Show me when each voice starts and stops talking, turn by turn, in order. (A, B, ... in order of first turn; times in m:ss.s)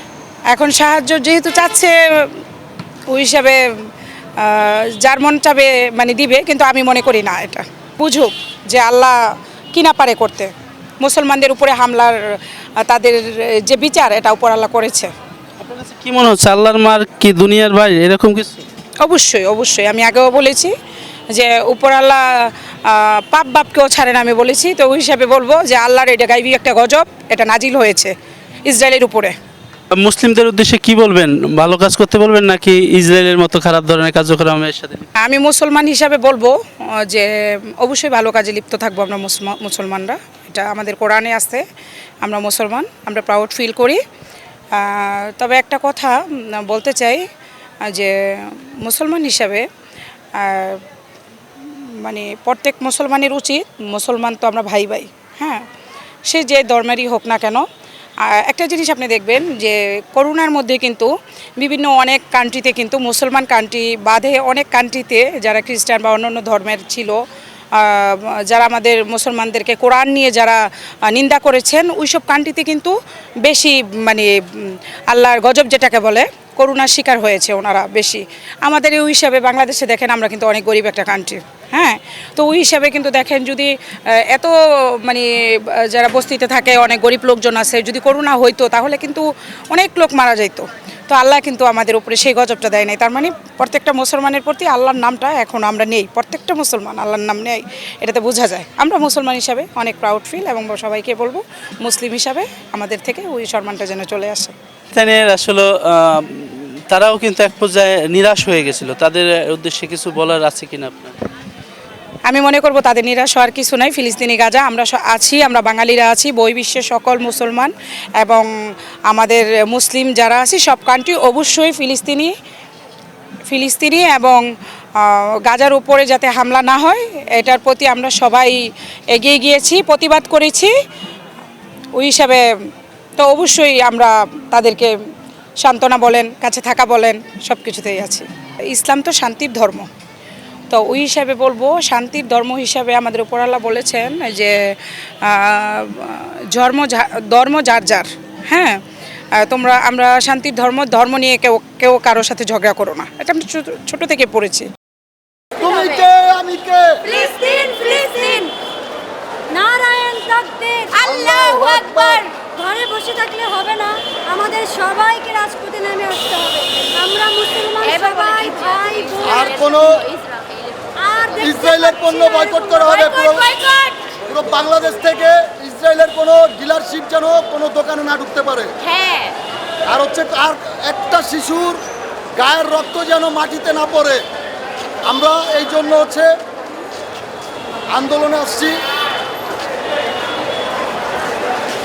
0:00.5-0:02.4 A
0:03.1-0:03.9 A
0:04.4-0:15.1 A
0:15.6-0:18.6 B
0:19.0-0:20.7 A
0:21.3-0:28.1 A
0:28.6-0:29.4 A
0:29.9-0:35.0 B
0:35.2-0:41.6 A
0:42.2-0:44.0 A
0:44.7-0:47.2 A
0:47.8-0:49.6 A
0:50.3-0:50.8 A
0:51.7-0:55.6 A
0:56.3-0:57.6 A
0:58.2-1:07.2 A
1:07.7-1:44.5 A
1:44.9-1:51.1 B
1:52.2-2:02.3 A
2:03.5-2:04.4 A
2:05.0-2:10.7 A
2:12.0-2:12.5 A
2:13.2-2:14.9 A
2:15.6-2:19.9 A
2:20.7-2:28.8 A
2:29.4-2:34.7 A
2:35.6-2:37.1 C
2:37.1-2:38.5 D
2:39.5-2:49.4 D
2:41.1-2:42.2 C
2:49.2-2:50.1 C
2:50.9-2:54.0 D
2:51.4-2:53.6 C
2:54.3-2:58.7 C
2:59.8-3:01.8 C
3:02.4-3:04.2 C
3:05.0-3:06.4 C
3:07.9-3:08.8 C